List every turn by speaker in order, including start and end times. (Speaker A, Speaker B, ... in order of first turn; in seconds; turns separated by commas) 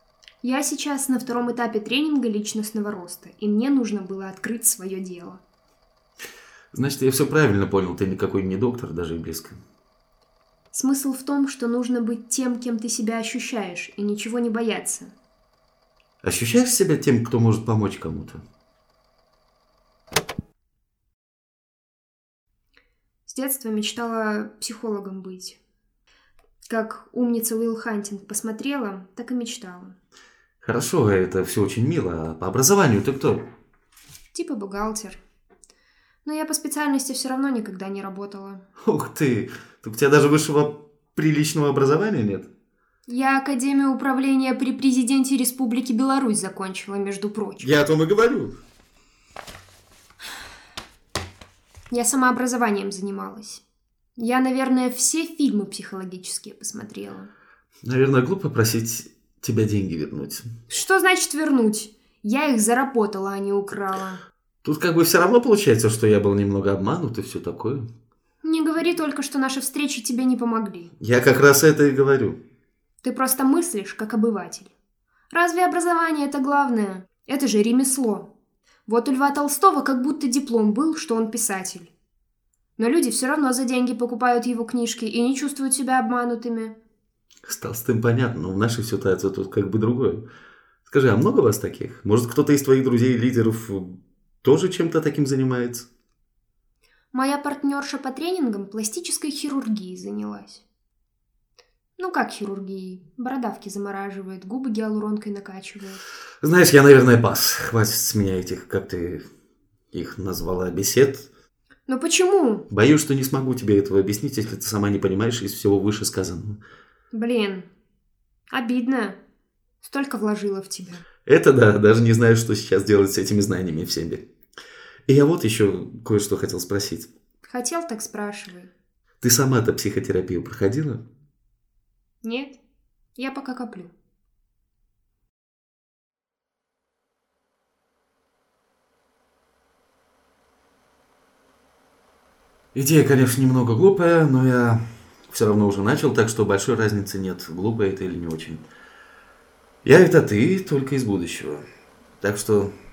Speaker A: 0.4-5.4, Speaker B: 6.7-9.6, Speaker A: 10.7-15.1, Speaker B: 16.2-18.4, Speaker A: 23.2-25.6, Speaker A: 26.7-29.9, Speaker B: 30.6-33.4, Speaker A: 34.3-35.2, Speaker A: 36.2-38.6, Speaker B: 38.8-42.5, Speaker A: 43.1-47.7, Speaker B: 47.6-48.5, Speaker A: 51.9-53.6, Speaker A: 54.2-57.3, Speaker B: 57.8-60.5, Speaker A: 60.7-64.2, Speaker B: 64.6-67.8, Speaker A: 68.4-70.9, Speaker B: 71.0-72.4, Speaker A: 73.0-74.7, Speaker A: 75.3-78.3, Speaker A: 78.9-81.9, Speaker A: 82.8-86.7, Speaker B: 87.4-90.2, Speaker B: 90.9-95.9, Speaker A: 97.1-100.6, Speaker A: 102.0-106.0, Speaker B: 106.4-109.3, Speaker B: 109.9-111.3, Speaker A: 111.9-112.7, Speaker B: 112.7-116.6, Speaker A: 117.1-117.7, Speaker A: 118.5-119.2, Speaker A: 119.8-121.0, Speaker B: 121.2-124.2, Speaker B: 125.1-127.1, Speaker A: 127.4-128.7, Speaker B: 129.2-131.0, Speaker A: 132.2-132.6, Speaker A: 133.2-133.9, Speaker B: 142.7-148.6, Speaker B: 149.8-151.6, Speaker B: 152.2-152.7